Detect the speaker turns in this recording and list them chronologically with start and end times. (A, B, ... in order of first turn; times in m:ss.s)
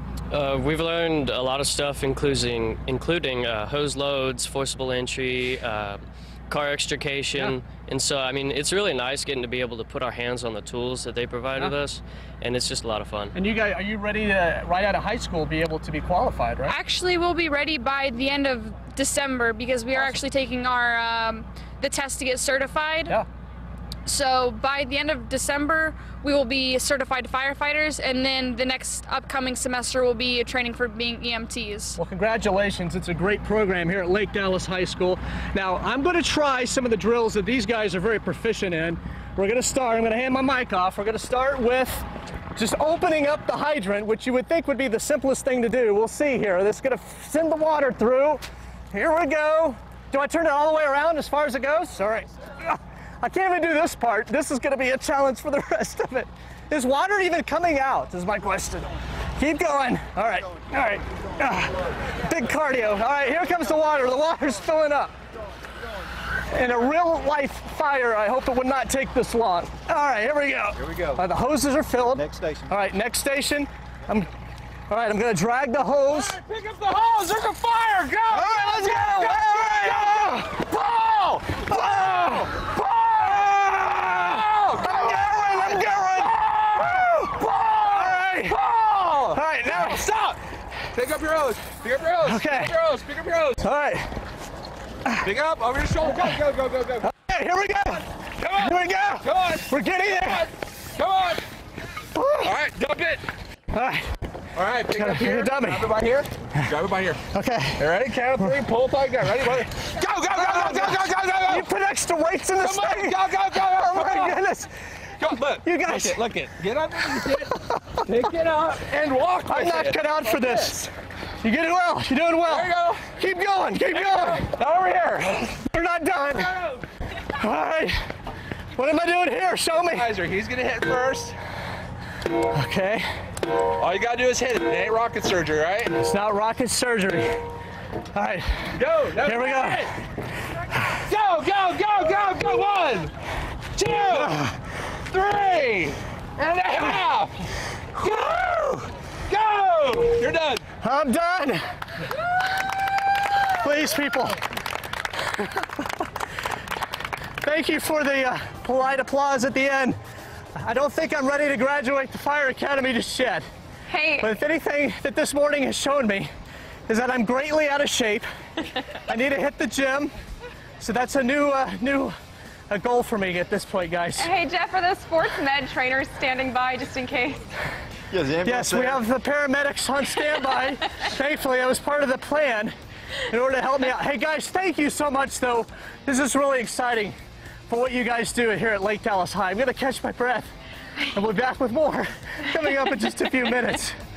0:00.3-0:13.3 A
0:13.3-0:16.8 B
0:16.7-0:23.2 C
0:24.0-0:32.0 C
0:32.0-1:05.1 B
1:06.5-1:14.3 B
1:10.8-1:11.2 D
1:12.1-1:12.7 D
1:14.9-1:16.4 B
1:16.1-1:30.4 E
1:18.3-1:20.6 B
1:21.6-1:22.6 B
1:24.8-1:28.6 B
1:29.3-1:30.0 B
1:30.9-1:33.6 E
1:32.2-1:32.8 B
1:33.6-1:34.1 B
1:35.2-1:37.1 E
1:37.0-1:40.5 B
1:38.4-1:41.4 E
1:42.1-1:42.5 B
1:42.4-1:43.3 E
1:43.7-1:44.1 B
1:44.5-1:47.2 E
1:44.9-1:45.9 B
1:47.3-1:48.5 B
1:47.8-1:51.7 E
1:50.3-1:54.7 B
1:52.6-1:54.4 E
1:55.2-2:00.8 E
1:55.6-1:56.2 B
1:57.2-1:58.1 B
1:59.4-2:04.5 B
2:02.4-2:03.1 E
2:03.9-2:05.6 E
2:05.6-2:06.6 B
2:06.4-2:06.8 E
2:07.3-2:08.0 B
2:08.8-2:10.1 B
2:09.8-2:11.4 E
2:12.5-2:13.1 B
2:13.7-2:16.0 E
2:16.0-2:17.4 B
2:18.1-2:19.9 B
2:18.7-2:19.9 E
2:21.0-2:23.1 E
2:23.8-2:24.4 E
2:24.1-2:24.6 B
2:25.1-2:28.6 E
2:28.2-2:28.9 B
2:29.3-2:30.6 E
2:30.8-2:31.6 B
2:33.4-2:34.4 B
2:37.4-2:40.0 B
2:40.6-2:43.4 B
2:43.9-2:44.3 F
2:44.2-2:46.3 B
2:46.9-2:48.2 B
2:48.9-2:50.1 B
2:50.8-2:52.1 B
2:52.7-2:54.3 B
2:54.2-2:57.5 F
2:58.1-2:59.0 D
2:58.4-3:02.7 B
3:03.3-3:07.1 B
3:07.7-3:10.5 B
3:11.0-3:14.0 B